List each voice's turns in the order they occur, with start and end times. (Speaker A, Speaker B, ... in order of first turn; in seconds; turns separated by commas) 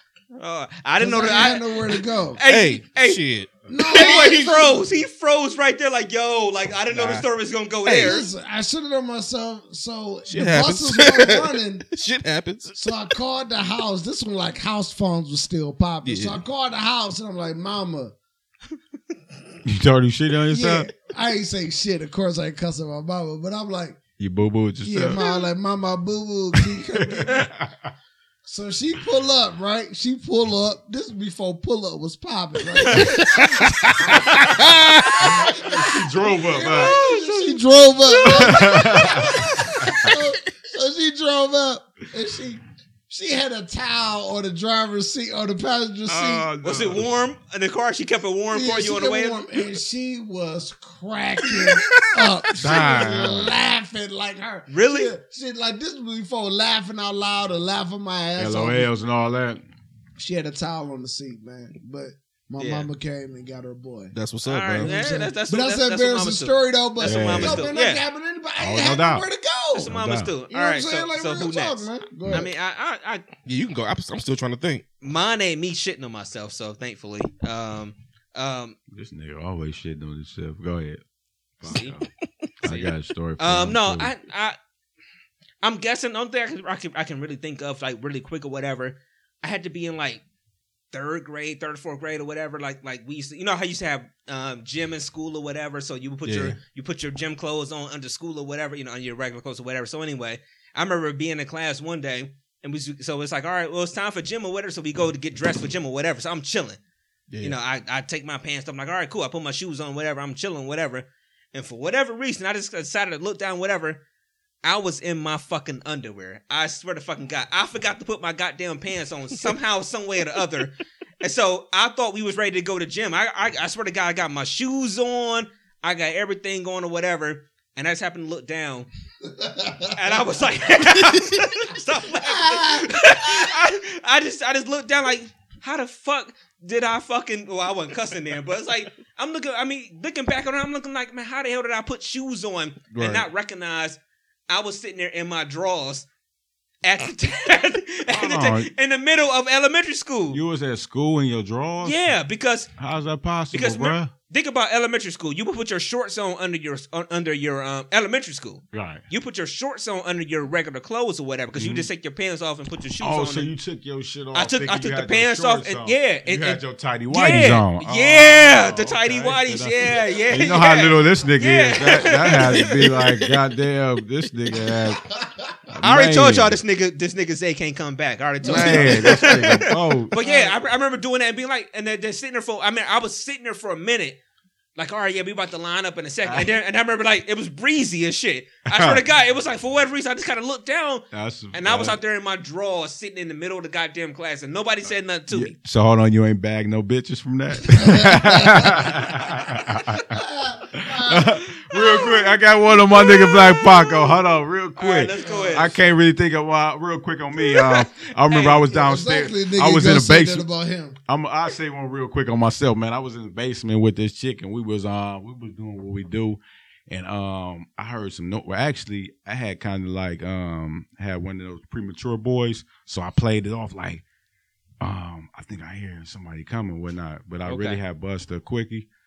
Speaker A: 0.3-3.2, Speaker B: 1.0-2.4, Speaker C: 2.5-4.4, Speaker B: 3.7-4.8, Speaker A: 3.8-8.3, Speaker C: 6.9-7.2, Speaker C: 7.8-8.2, Speaker B: 8.0-11.9, Speaker C: 10.3-13.1, Speaker B: 12.8-18.1, Speaker C: 16.0-16.4, Speaker D: 19.6-20.9, Speaker B: 20.5-24.0, Speaker D: 24.2-25.2, Speaker B: 24.9-27.5, Speaker D: 26.6-27.9, Speaker B: 28.4-46.5, Speaker A: 32.9-33.2, Speaker C: 33.0-33.4, Speaker C: 34.4-35.2, Speaker D: 35.2-37.0, Speaker A: 36.6-40.1, Speaker D: 38.2-40.1, Speaker D: 46.1-47.1, Speaker A: 46.6-49.5, Speaker B: 48.5-58.9, Speaker D: 52.6-53.6, Speaker A: 54.7-55.1, Speaker D: 58.4-59.6, Speaker B: 60.2-64.1, Speaker A: 62.6-62.9, Speaker C: 64.1-64.9, Speaker A: 64.5-68.0, Speaker B: 64.8-70.0, Speaker D: 67.0-67.7, Speaker D: 68.6-70.3, Speaker A: 69.8-73.3, Speaker B: 70.5-72.5, Speaker D: 72.2-72.5, Speaker C: 73.5-74.8, Speaker A: 75.0-78.8, Speaker D: 78.9-81.0, Speaker D: 81.6-82.1, Speaker A: 81.7-82.0, Speaker D: 82.6-84.1, Speaker A: 82.6-84.6, Speaker A: 85.6-90.2, Speaker A: 90.9-106.8, Speaker C: 96.2-96.6, Speaker C: 107.3-107.6, Speaker A: 107.4-114.0, Speaker A: 114.6-128.9, Speaker B: 129.2-130.0, Speaker A: 129.9-146.1, Speaker C: 131.1-131.3, Speaker B: 132.2-133.5, Speaker D: 142.9-143.3, Speaker A: 146.8-150.4, Speaker D: 148.1-148.7, Speaker D: 150.3-152.1, Speaker A: 151.8-152.7, Speaker D: 152.8-154.1, Speaker A: 153.5-163.5, Speaker D: 158.7-159.0, Speaker D: 161.6-161.9, Speaker D: 163.0-175.0, Speaker A: 164.3-173.3, Speaker B: 175.1-175.6, Speaker D: 175.7-176.6, Speaker A: 175.8-184.2, Speaker D: 178.4-180.1, Speaker B: 178.4-180.6, Speaker A: 184.8-195.6, Speaker D: 188.7-189.0, Speaker D: 191.1-192.0, Speaker D: 195.3-200.2, Speaker B: 197.8-198.9, Speaker B: 200.1-201.4, Speaker D: 200.7-210.5, Speaker A: 201.7-204.1, Speaker A: 204.8-205.8, Speaker B: 205.2-205.7, Speaker A: 207.4-208.7, Speaker B: 208.7-211.0, Speaker D: 211.1-224.0, Speaker D: 224.8-228.9, Speaker A: 227.5-227.8